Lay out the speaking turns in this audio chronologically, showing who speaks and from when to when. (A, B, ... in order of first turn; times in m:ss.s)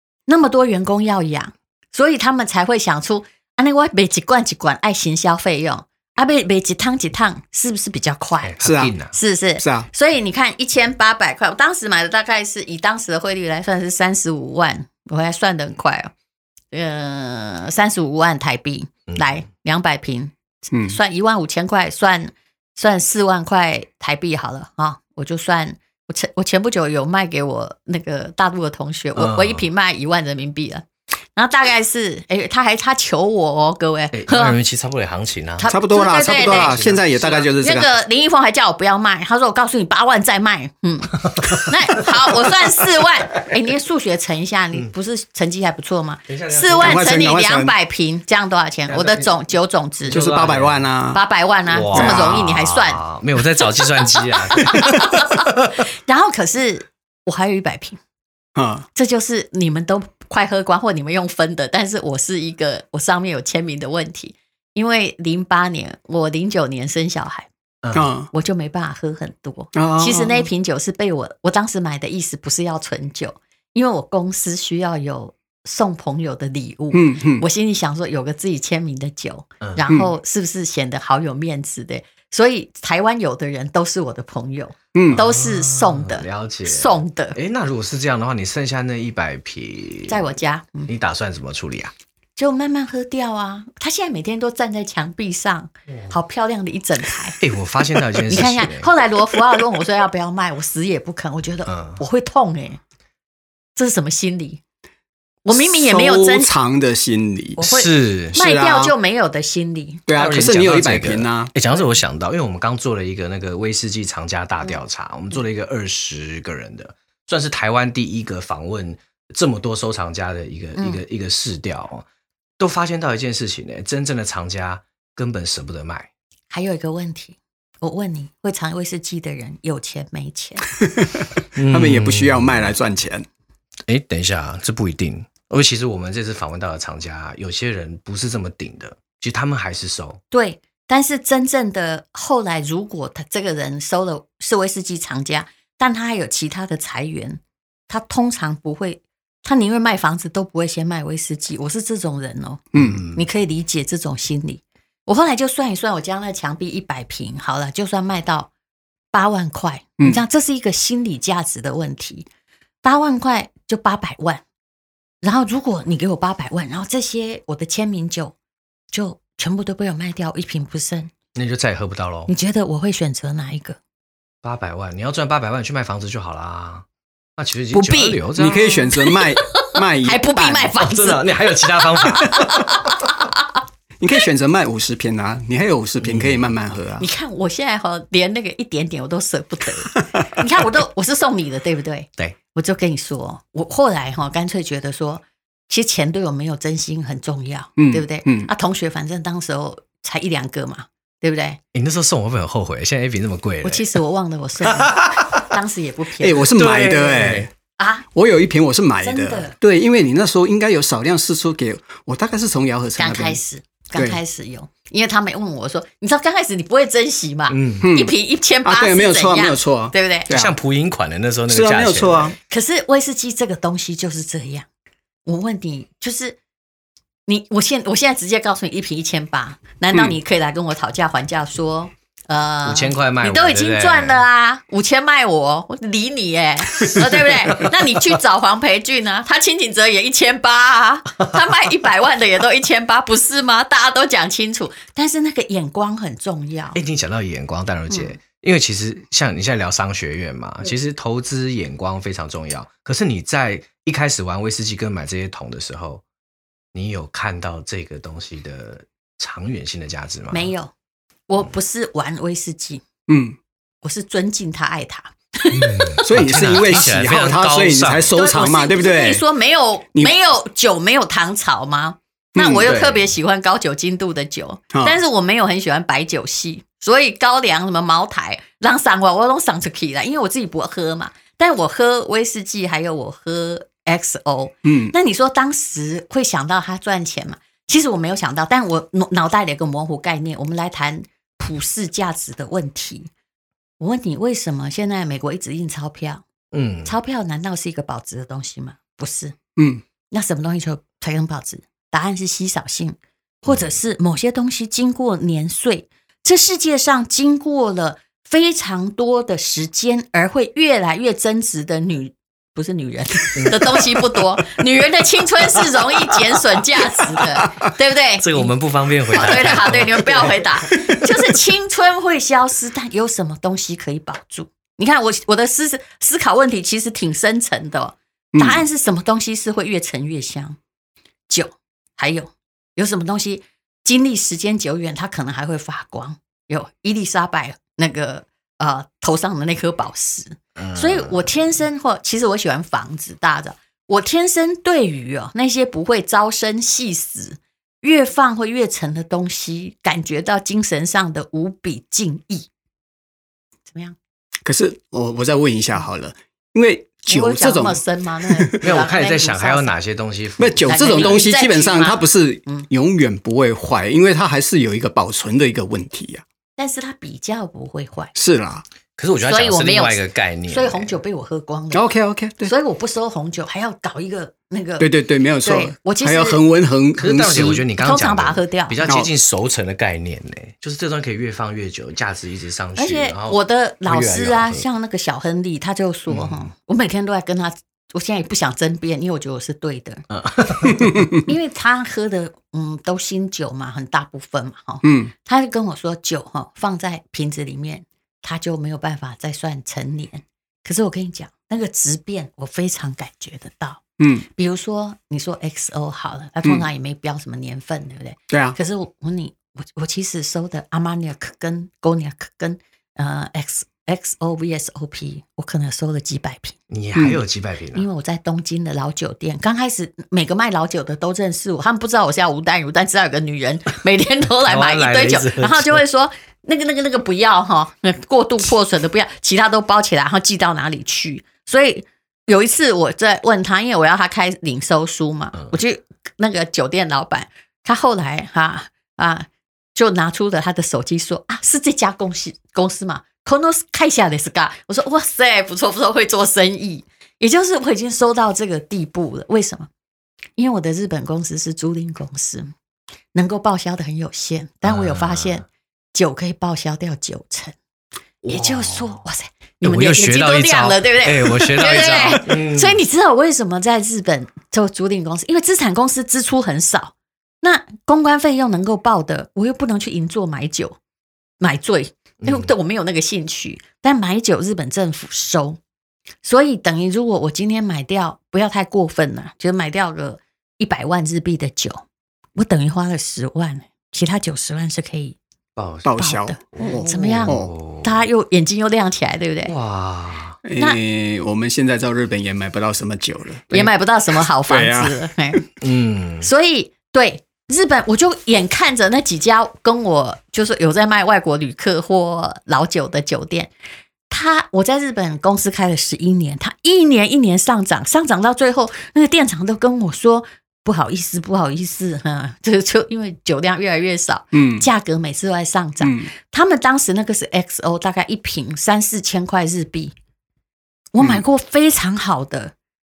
0:00.3-0:08.6 A
0:08.4-0:09.2 B
0:08.6-0:08.9 C
0:09.1-0:16.1 A
0:09.6-0:09.9 C
0:16.7-0:20.3 A
0:19.1-0:19.4 B
0:20.7-0:21.0 C
0:20.9-0:34.6 A
0:29.2-0:29.7 B
0:34.1-0:35.7 B
0:35.6-0:50.2 A
0:35.7-0:37.9 C
0:36.3-0:37.1 B
0:41.3-0:42.3 B
0:46.3-0:47.2 B
0:46.8-0:47.7 C
0:48.9-0:49.3 B
0:50.0-0:50.8 B
0:50.1-0:51.2 C
0:51.1-0:53.0 A
0:51.7-0:55.7 B
0:51.9-0:52.4 C
0:53.6-0:55.5 A
0:56.0-0:58.0 A
0:58.6-0:58.9 C
0:59.0-1:07.5 A
1:07.8-1:08.1 B
1:07.9-1:08.3 C
1:08.3-1:27.4 A
1:09.8-1:10.5 C
1:16.9-1:17.4 C
1:19.6-1:19.9 B
1:24.9-1:25.2 C
1:25.1-1:30.2 B
1:30.1-1:30.9 A
1:30.9-1:31.9 B
1:32.4-1:37.4 A
1:37.4-1:38.9 B
1:38.3-1:42.8 A
1:41.7-1:42.0 B
1:43.8-1:44.6 A
1:45.4-1:46.5 A
1:45.5-1:47.6 C
1:47.6-1:50.0 A
1:47.6-1:48.4 B
1:48.3-1:48.9 C
1:50.1-1:51.5 C
1:50.1-2:02.0 B
2:00.8-2:01.0 A
2:02.6-2:06.1 B
2:06.5-2:10.7 A
2:10.8-2:13.3 C
2:11.6-2:12.7 B
2:13.9-2:20.2 B
2:20.3-2:38.5 A
2:32.7-2:33.0 C
2:32.8-2:33.2 B
2:39.1-2:42.3 A
2:42.8-2:44.4 A
2:45.2-2:48.4 A
2:48.9-2:51.1 A
2:51.4-2:52.3 B
2:52.3-2:53.8 A
2:54.4-2:56.8 B
2:57.4-2:58.9 B
2:57.7-2:58.2 A
2:58.4-3:00.8 C
2:59.0-3:03.5 A
3:00.8-3:03.0 B
3:04.0-3:07.1 C
3:06.0-3:06.5 B
3:07.0-3:21.6 A
3:17.8-3:18.5 C
3:21.7-3:24.0 B
3:23.6-3:26.5 A
3:24.7-3:25.5 B
3:26.2-3:27.5 C
3:26.6-3:27.5 B
3:27.8-3:28.1 A
3:28.1-3:33.4 C
3:29.0-3:29.6 A
3:33.0-3:40.3 A
3:37.5-3:37.9 B
3:37.8-3:40.6 C
3:40.3-3:42.4 B
3:41.5-3:42.4 C
3:42.5-3:44.7 A
3:45.2-3:46.4 A
3:47.3-4:06.8 A
3:52.6-3:54.2 B
4:06.8-4:16.0 B
4:07.9-4:08.2 A
4:16.7-4:20.5 B
4:20.3-4:20.7 A
4:21.3-4:22.8 A
4:23.1-4:23.4 C
4:23.8-4:26.1 A
4:25.5-4:28.2 B
4:26.0-4:29.2 C
4:28.2-4:53.1 A
4:32.4-4:32.8 C
4:32.7-4:33.0 B
4:34.7-4:35.0 C
4:44.6-4:44.9 C
4:53.8-4:56.2 A
4:56.5-4:56.9 B
4:56.8-4:59.4 A
4:59.6-4:59.8 C
5:00.1-5:18.5 A
5:03.5-5:03.7 B
5:13.4-5:13.6 B
5:18.2-5:20.6 B
5:19.1-5:30.6 A
5:28.3-5:28.6 C
5:31.3-5:52.5 A
5:40.6-5:41.3 B
5:53.7-5:54.0 A
5:54.4-5:58.6 C
5:57.1-5:59.7 A
5:58.6-6:01.2 B
6:00.4-6:06.2 C
6:00.7-6:02.7 A
6:06.6-6:08.1 A
6:08.2-6:08.6 C
6:09.0-6:11.0 B
6:09.2-6:11.8 A
6:11.7-6:12.5 C
6:12.4-6:14.9 A
6:14.8-6:17.6 C
6:15.4-6:16.4 A
6:17.0-6:24.7 B
6:17.8-6:18.8 A
6:22.8-6:30.0 A
6:26.1-6:26.5 B
6:30.1-6:31.0 B
6:30.7-6:31.2 C
6:31.2-6:43.8 A
6:34.8-6:35.1 C
6:44.0-6:44.3 C
6:44.3-6:56.6 A
6:48.3-6:48.6 C
6:56.7-6:57.9 B
6:57.0-6:57.2 C
6:57.8-7:29.7 A
7:04.4-7:05.8 B
7:30.4-7:32.5 A
7:33.1-7:37.6 A
7:34.6-7:35.4 B
7:38.2-7:39.0 B
7:38.3-7:50.8 A
7:39.6-7:42.8 B
7:51.4-7:55.6 A
7:52.2-7:52.5 B
7:56.2-8:01.8 A
8:02.4-8:05.2 A
8:05.6-8:06.0 B
8:05.8-8:07.5 C
8:06.0-8:09.5 A
8:06.5-8:08.0 B
8:09.4-8:10.4 B
8:10.4-8:15.4 C
8:13.5-8:15.5 A
8:15.6-8:16.3 B
8:16.2-8:23.5 A
8:24.1-8:40.0 A
8:34.3-8:34.7 C
8:35.8-8:36.1 C
8:40.9-8:42.5 A